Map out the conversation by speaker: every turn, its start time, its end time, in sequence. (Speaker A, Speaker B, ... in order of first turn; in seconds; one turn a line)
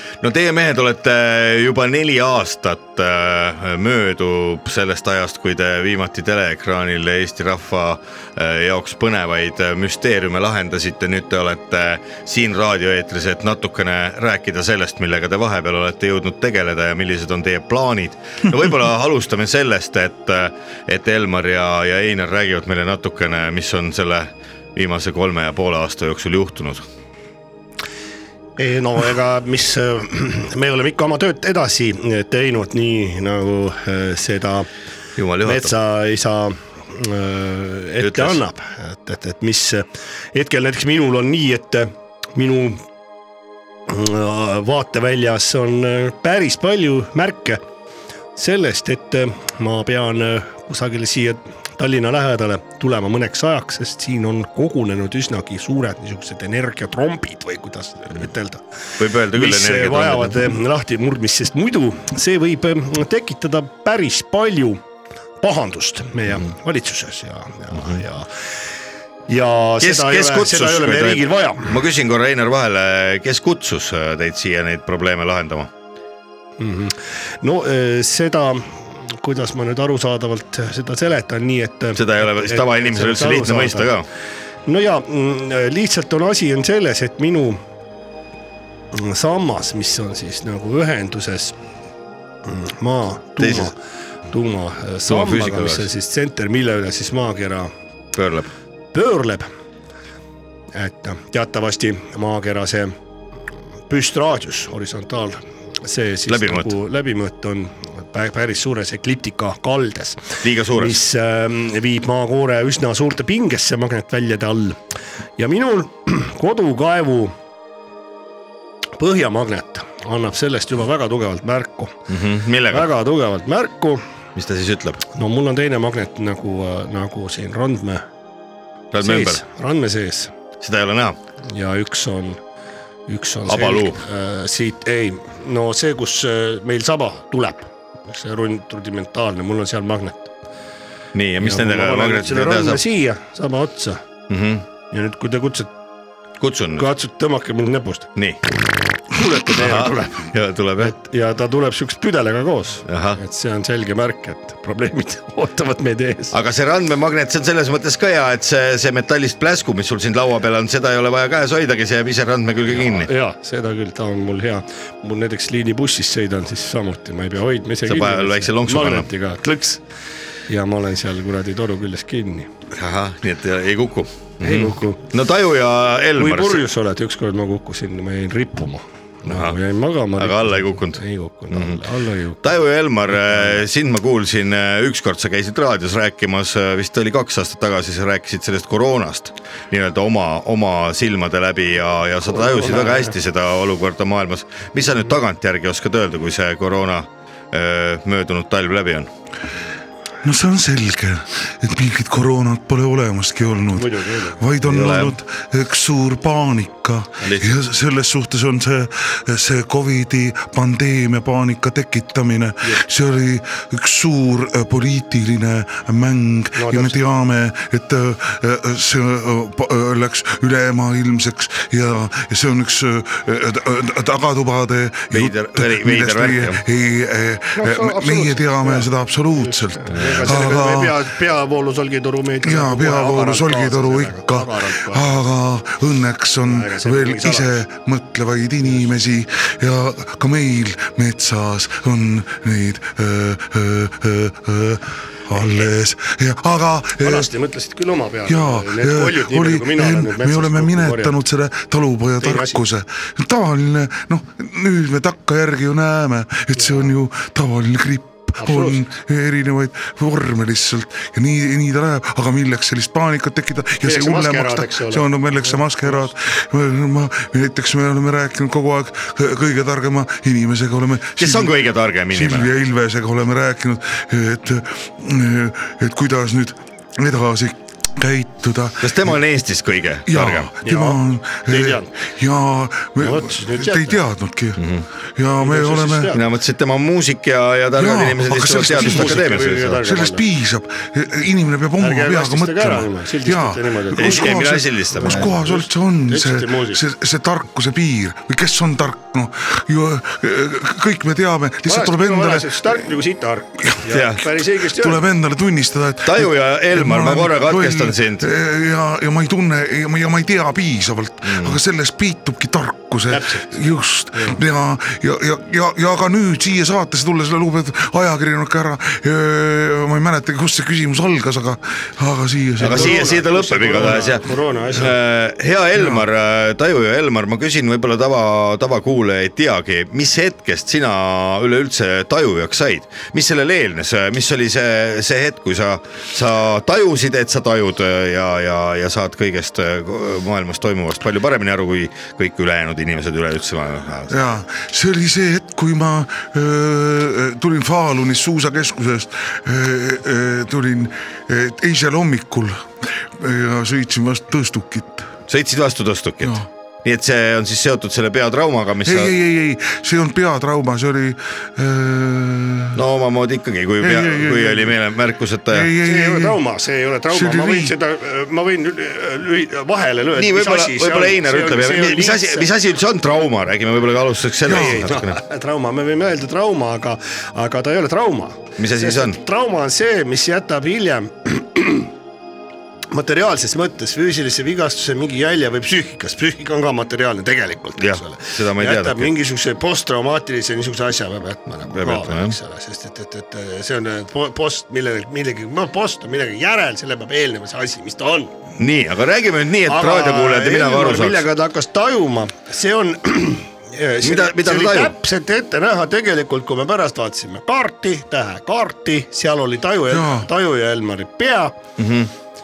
Speaker A: 0.2-26.9
Speaker B: 28.6-34.7
Speaker A: 35.2-35.7
Speaker B: 35.4-42.8
Speaker A: 38.0-38.4
Speaker B: 43.9-47.6
Speaker B: 48.4-58.6
Speaker A: 59.0-60.5
Speaker B: 59.3-64.8
Speaker B: 65.4-68.3
Speaker B: 69.3-71.8
Speaker A: 69.8-75.7
Speaker B: 76.6-83.9
Speaker A: 82.0-84.1
Speaker B: 84.7-87.6
Speaker B: 88.9-91.5
Speaker B: 92.4-93.8
Speaker A: 93.4-93.7
Speaker B: 94.3-97.7
Speaker A: 95.1-95.9
Speaker A: 98.1-98.5
Speaker B: 98.9-99.5
Speaker B: 100.7-102.9
Speaker B: 103.9-114.8
Speaker A: 106.3-106.7
Speaker A: 110.4-111.0
Speaker B: 115.4-117.3
Speaker B: 119.0-121.9
Speaker A: 122.1-122.9
Speaker B: 122.7-124.0
Speaker A: 124.3-125.0
Speaker B: 125.1-128.0
Speaker A: 128.9-129.4
Speaker B: 129.0-130.3
Speaker A: 130.6-131.2
Speaker B: 131.5-132.4
Speaker B: 133.1-140.3
Speaker A: 133.5-134.0
Speaker A: 141.1-142.8
Speaker B: 141.4-144.0
Speaker A: 144.3-144.6
Speaker B: 144.9-145.7
Speaker A: 146.4-146.9
Speaker B: 146.8-148.1
Speaker B: 149.1-156.3
Speaker A: 149.5-150.9
Speaker A: 152.9-153.2
Speaker A: 156.3-163.1
Speaker B: 162.7-169.8
Speaker A: 167.9-169.1
Speaker B: 170.5-172.5
Speaker A: 172.7-176.6
Speaker B: 174.4-175.0
Speaker B: 176.2-182.4
Speaker A: 179.3-179.6
Speaker A: 180.2-181.8
Speaker A: 182.4-199.1
Speaker B: 183.3-183.6
Speaker B: 192.3-193.1
Speaker C: 200.2-231.0
Speaker B: 203.7-204.4
Speaker A: 204.6-205.2
Speaker A: 207.2-207.5
Speaker B: 216.5-217.0
Speaker A: 225.1-226.6
Speaker B: 227.6-235.1
Speaker C: 232.4-247.3
Speaker B: 236.4-237.6
Speaker B: 247.0-251.2
Speaker C: 248.2-271.5
Speaker B: 252.2-252.6
Speaker B: 256.6-256.9
Speaker B: 258.4-258.8
Speaker B: 263.8-266.1
Speaker A: 271.2-272.5
Speaker C: 272.1-279.1
Speaker A: 278.8-280.5
Speaker C: 280.1-284.6
Speaker B: 280.6-281.9
Speaker B: 283.0-284.0
Speaker A: 284.6-284.9
Speaker C: 285.1-286.1
Speaker B: 285.4-286.2
Speaker A: 286.1-289.8
Speaker C: 287.7-302.9
Speaker B: 288.4-290.2
Speaker B: 291.8-294.4
Speaker A: 294.0-295.3
Speaker B: 295.0-296.8
Speaker B: 301.6-305.1
Speaker C: 303.6-304.0
Speaker A: 303.9-304.2
Speaker C: 304.5-323.1
Speaker A: 306.0-308.3
Speaker A: 311.2-311.6
Speaker B: 313.1-314.4
Speaker A: 322.6-344.2
Speaker B: 322.6-324.9
Speaker C: 325.7-326.0
Speaker C: 344.1-355.1
Speaker A: 355.3-359.1
Speaker C: 358.8-362.8
Speaker A: 362.7-365.7
Speaker C: 363.8-364.8
Speaker C: 365.5-366.4
Speaker B: 365.8-372.5
Speaker C: 367.1-367.7
Speaker A: 370.1-375.2
Speaker C: 374.4-374.9
Speaker B: 374.5-381.9
Speaker A: 378.6-379.2
Speaker B: 382.9-398.3
Speaker A: 387.8-389.1
Speaker A: 391.7-392.4
Speaker A: 398.6-401.2
Speaker B: 399.6-411.6
Speaker A: 404.0-404.9
Speaker C: 409.9-410.3
Speaker A: 411.8-412.1